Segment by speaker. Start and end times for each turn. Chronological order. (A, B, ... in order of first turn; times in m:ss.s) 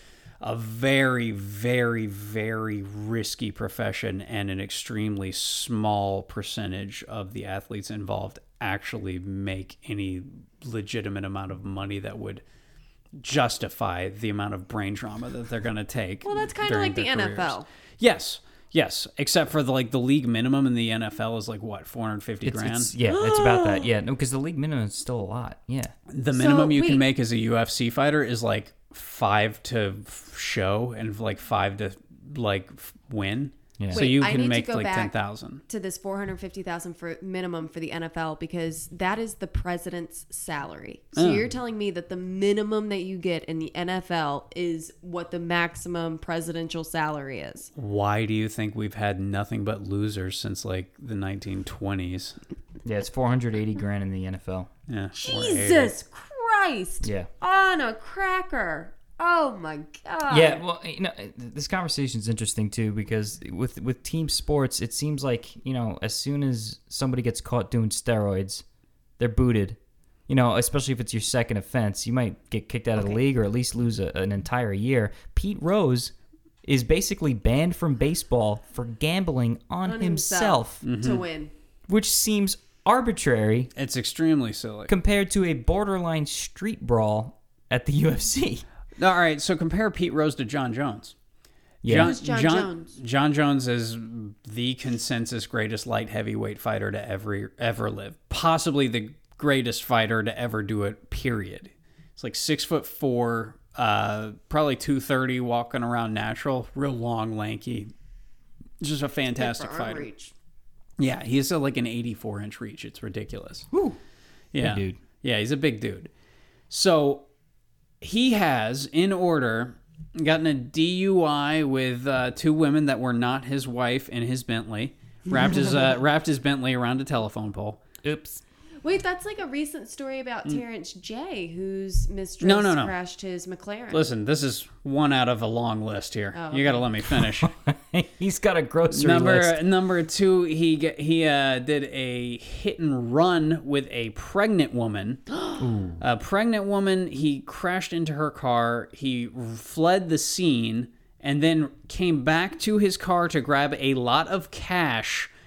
0:00.4-0:12.4 A
0:13.2-0:22.9 A
0:16.2-0:17.7 B
0:22.4-0:25.9 C
0:23.1-0:23.9 B
0:26.1-0:35.6 A
0:26.3-0:27.0 B
0:33.8-0:34.1 C
0:33.9-0:35.1 B
0:35.7-0:47.7 B
0:41.2-0:41.5 A
0:47.8-0:52.4 A
0:52.8-0:54.7 C
0:54.9-0:55.9 A
0:55.1-1:00.6 B
0:57.0-0:57.3 C
1:00.3-1:08.6 C
1:09.2-1:16.1 C
1:16.6-1:20.8 C
1:19.8-1:21.5 B
1:20.8-1:21.2 A
1:21.9-1:23.7 C
1:23.8-1:24.9 A
1:24.9-1:28.6 C
1:29.0-1:31.1 A
1:31.8-1:32.1 C
1:31.8-1:47.9 A
1:31.9-1:32.9 B
1:48.8-1:50.1 A
1:49.4-1:50.3 B
1:51.0-1:53.7 A
1:53.7-1:54.0 C
1:54.5-1:56.1 A
1:54.6-1:55.0 C
1:56.7-1:57.2 A
1:58.0-2:07.8 A
2:08.0-2:08.4 C
2:08.8-2:14.1 B
2:12.4-2:12.9 A
2:13.9-2:17.5 A
2:16.3-2:16.9 B
2:17.2-2:19.6 C
2:18.9-2:25.4 A
2:25.6-2:26.0 C
2:26.0-2:35.3 A